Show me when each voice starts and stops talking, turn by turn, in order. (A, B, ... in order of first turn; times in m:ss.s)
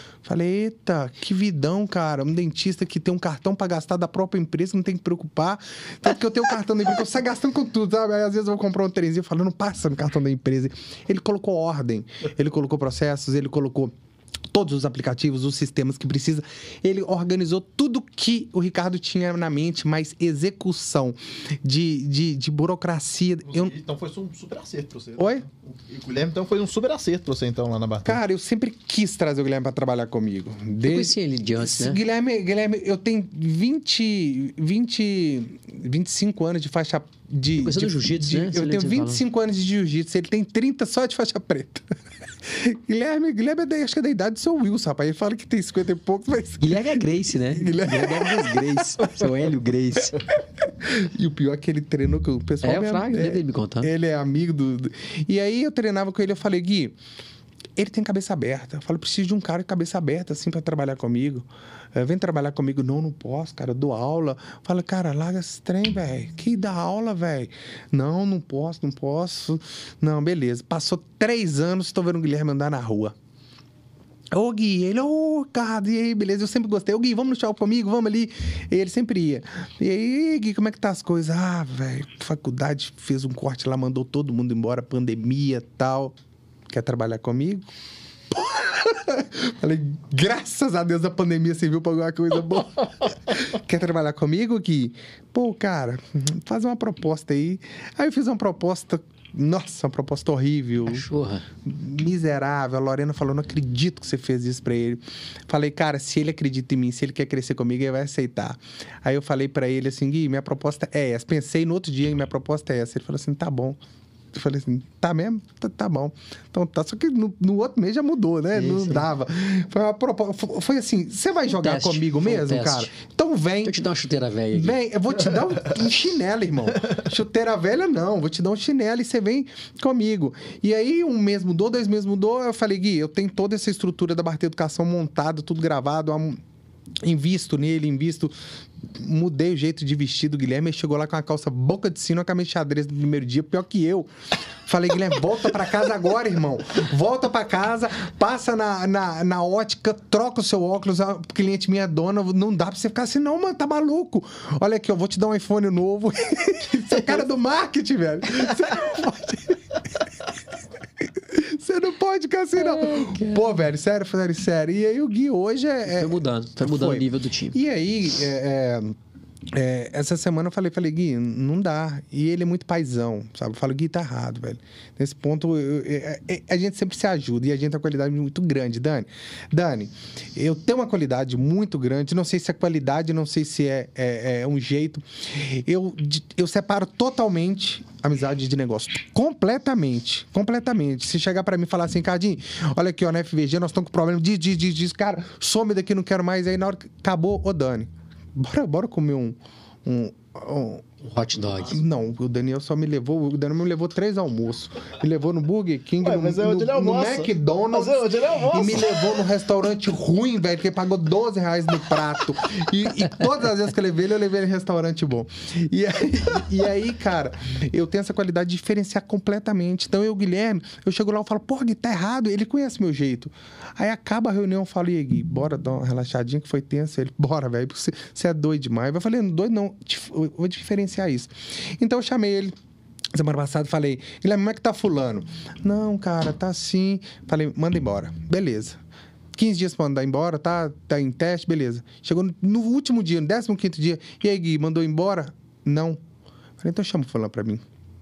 0:00.2-0:13.9 A
0:14.5-0:23.7 A
0:23.5-0:28.2 B
0:25.2-0:25.4 A
0:28.0-0:49.3 A
0:30.8-0:32.0 C
0:37.6-0:39.2 C
0:46.6-0:50.2 C
0:50.6-0:57.0 A
0:52.6-0:53.9 C
0:57.8-1:13.2 A
1:14.3-1:26.2 A
1:26.7-1:27.7 A
1:28.3-1:41.1 A
1:40.9-1:41.4 C
1:41.6-1:53.8 A
1:54.3-2:03.8 A
1:58.6-1:59.1 C
2:01.5-2:02.9 C
2:03.6-2:04.8 C
2:04.5-2:16.4 A
2:17.0-2:24.1 A
2:24.6-2:39.6 A
2:41.0-2:49.0 A
2:42.6-2:43.5 C
2:45.9-2:47.6 C
2:49.5-3:20.8 A
3:21.0-3:21.8 C
3:21.7-3:52.6 A
3:26.0-3:29.1 B
3:53.1-3:58.8 A
3:59.4-4:06.0 A
4:06.6-4:07.6 A